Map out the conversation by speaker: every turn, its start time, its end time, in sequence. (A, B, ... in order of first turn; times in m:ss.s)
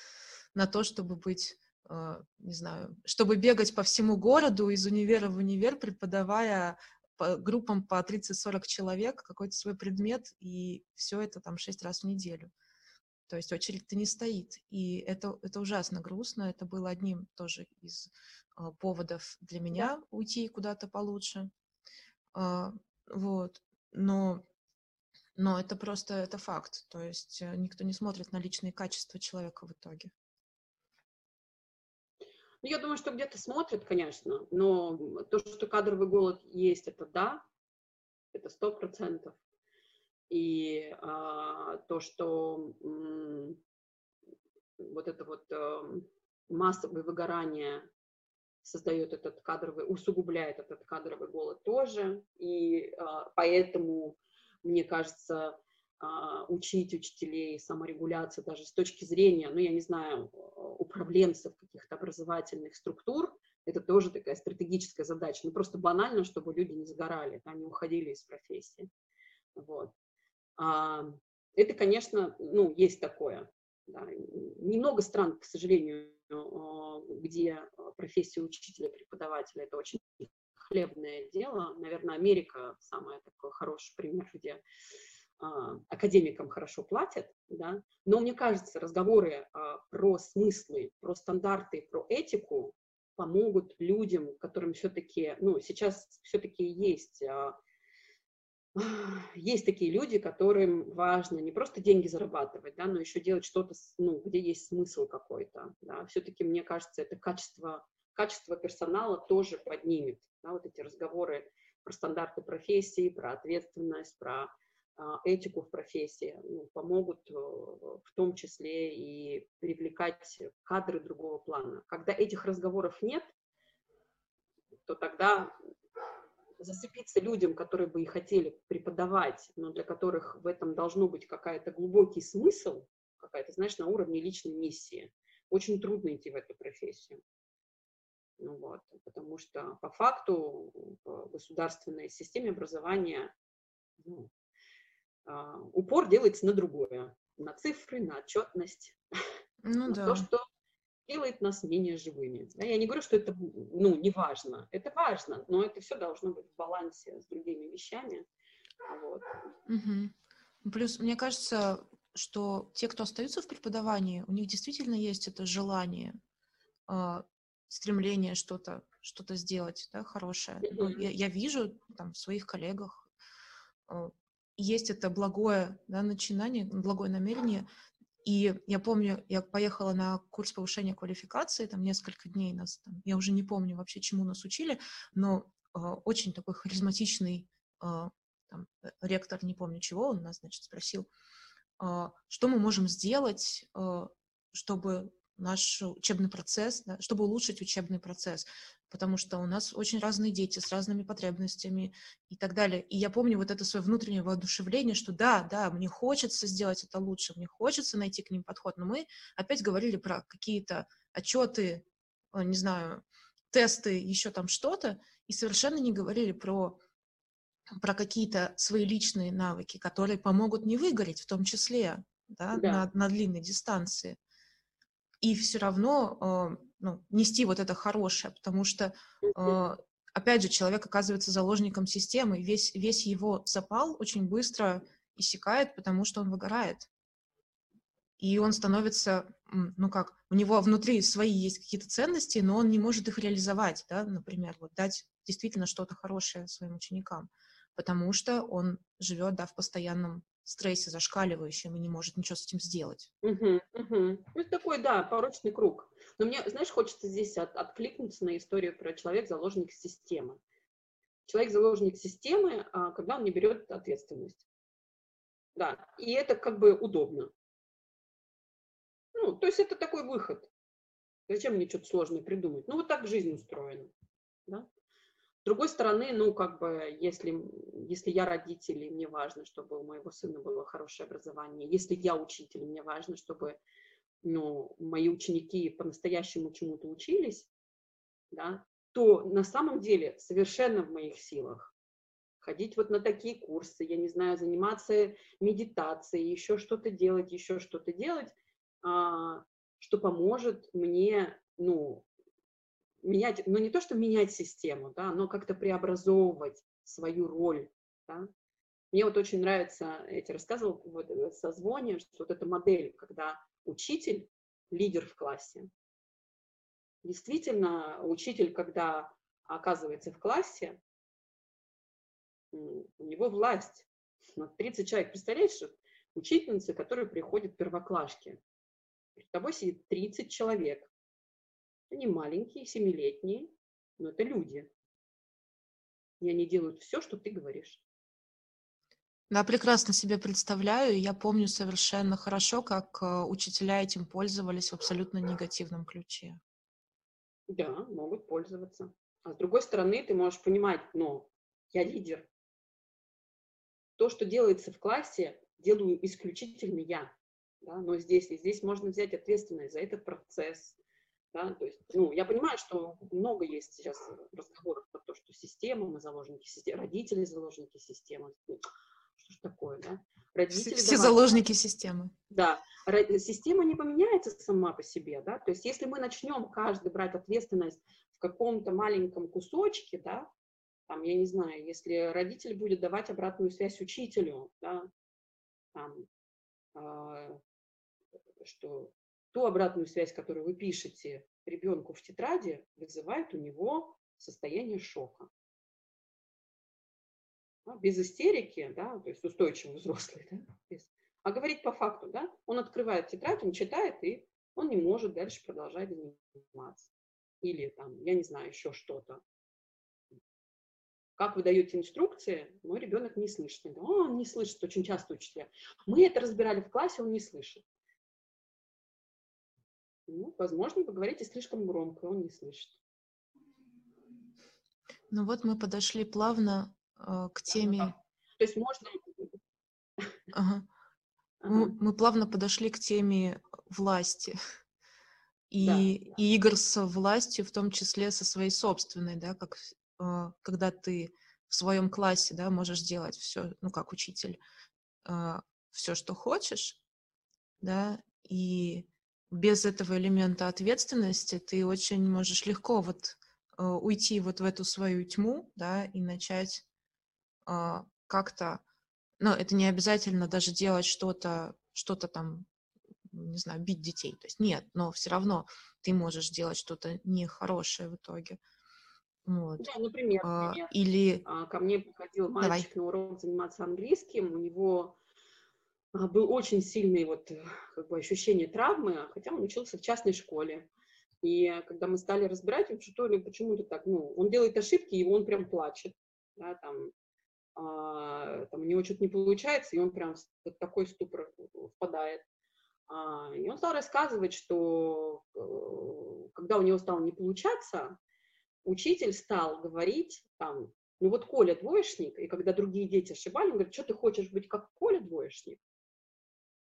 0:00.5-0:12.5 A
0:13.3-0:21.5 A
0:22.3-0:24.4 A
0:25.4-0:30.1 A
0:32.6-0:37.4 B
0:38.3-0:39.4 B
0:40.3-0:43.6 B
0:44.8-0:47.9 B
0:48.6-1:08.9 B
1:09.6-1:09.9 B
1:10.6-1:24.6 B
1:25.4-1:37.6 B
1:38.8-2:03.3 B
2:04.9-2:05.6 B
2:06.6-2:17.2 B
2:18.4-2:23.3 B
2:24.0-2:24.3 B
2:25.3-2:29.0 B
2:29.6-2:30.3 A
2:29.9-2:30.4 B
2:31.1-2:38.3 B
2:38.8-2:39.5 B
2:39.7-2:46.2 A
2:46.9-2:53.1 A
2:50.6-2:51.0 B
2:53.9-2:57.7 A
2:58.2-3:11.1 A
3:11.8-3:36.8 A
3:37.8-3:44.2 A
3:42.5-3:42.9 B
3:45.2-3:56.9 A
3:49.2-3:49.6 B
3:58.2-4:13.1 A
4:13.2-4:20.4 B
4:21.3-4:24.4 B
4:25.6-4:27.3 B
4:29.1-4:30.5 B
4:31.3-4:33.9 B
4:35.4-4:43.6 B
4:44.2-4:47.5 B
4:48.3-4:51.7 B
4:52.4-5:02.1 B
5:03.0-5:08.3 B
5:08.9-5:15.7 B
5:17.0-5:20.8 B
5:22.5-5:28.4 B
5:29.2-5:30.9 B
5:31.9-5:34.7 B
5:36.2-5:37.8 B
5:39.3-5:46.4 A
5:47.5-5:52.3 B
5:54.0-6:00.8 B
6:01.3-6:08.6 B
6:09.2-6:11.3 B
6:10.5-6:12.1 A
6:12.3-6:20.3 B
6:20.9-6:24.9 B
6:25.7-6:26.1 B
6:26.8-6:27.4 B
6:28.4-6:35.3 B
6:37.7-6:46.9 B
6:47.4-6:49.2 B
6:51.2-6:57.6 B
7:00.1-7:02.8 B
7:05.1-7:07.9 A
7:07.5-7:09.4 B
7:10.3-7:10.7 A
7:11.4-7:11.7 B
7:11.5-7:14.4 A
7:15.5-7:24.4 A
7:15.6-7:16.0 B
7:25.0-7:26.8 A
7:27.6-7:36.6 A
7:37.5-7:38.6 A
7:39.2-7:42.5 A
7:43.1-7:48.4 A
7:49.3-7:49.7 A
7:49.6-7:50.7 B
7:50.2-7:51.2 A
7:51.2-7:55.0 B
7:52.4-7:52.7 A
7:55.9-8:00.7 B
8:01.2-8:06.9 B
8:07.6-8:12.2 B
8:12.9-8:18.0 B
8:18.6-8:25.6 B